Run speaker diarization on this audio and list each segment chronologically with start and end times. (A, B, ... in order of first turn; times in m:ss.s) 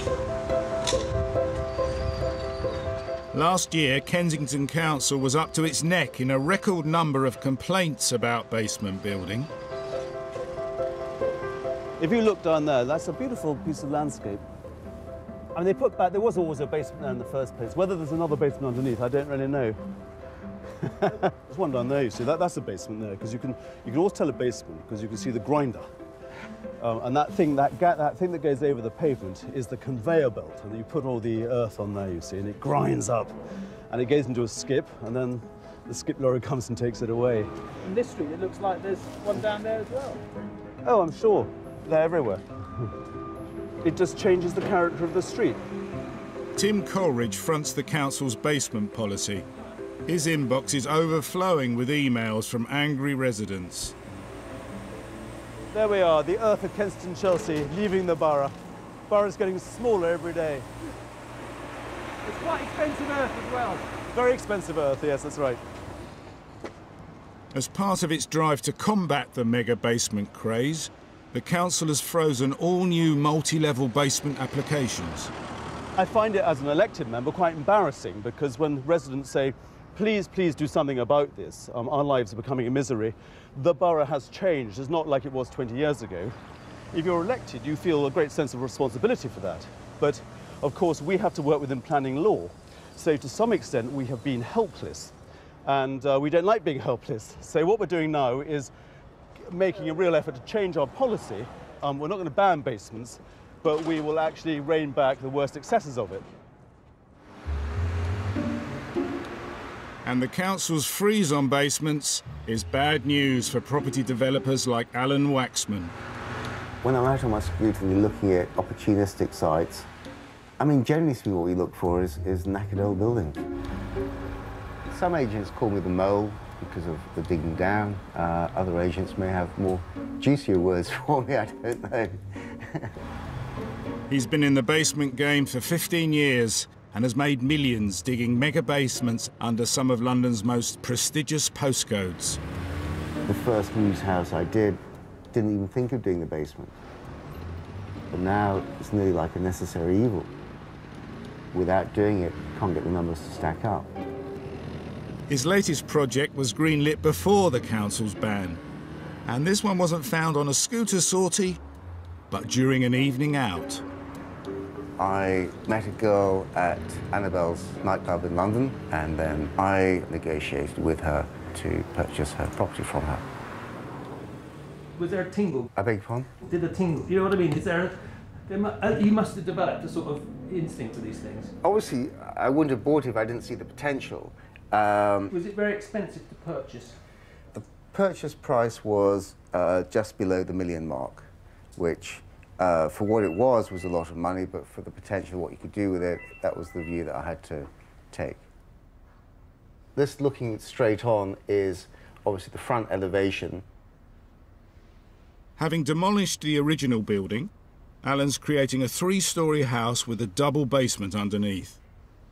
0:03.3-0:09.5 A
0:12.0-0:14.4 B
0:15.5-0:19.8 B
0:20.8-0:25.9 B
0:26.8-0:33.4 B
0:33.9-0:37.5 B
0:37.8-0:40.2 C
0:40.8-0:42.4 B
0:43.8-0:45.6 B
0:46.6-0:49.5 A
0:50.0-0:53.9 A
0:55.7-0:58.5 B
0:59.1-1:00.7 B
1:02.3-1:03.4 B
1:02.3-1:03.8 C
1:04.1-1:05.6 B
1:07.5-1:15.3 A
1:16.0-1:26.3 B
1:26.9-1:38.7 B
1:39.4-1:46.2 B
1:50.0-1:55.9 A
1:56.8-1:59.9 D
2:00.6-2:03.4 D
2:04.9-2:12.9 D
2:14.1-2:22.4 A
2:23.2-2:26.7 D
2:28.1-2:30.3 D
2:31.5-2:33.9 D
2:35.3-2:38.6 A
2:39.2-2:41.6 A
2:42.3-2:43.8 A
2:45.0-2:53.2 D
2:54.9-2:55.7 C
2:55.7-2:56.3 D
2:56.4-3:01.5 C
3:01.6-3:05.3 D
3:05.3-3:07.0 C
3:07.5-3:18.4 D
3:19.9-3:23.6 D
3:25.6-3:27.5 A
3:28.0-3:31.8 A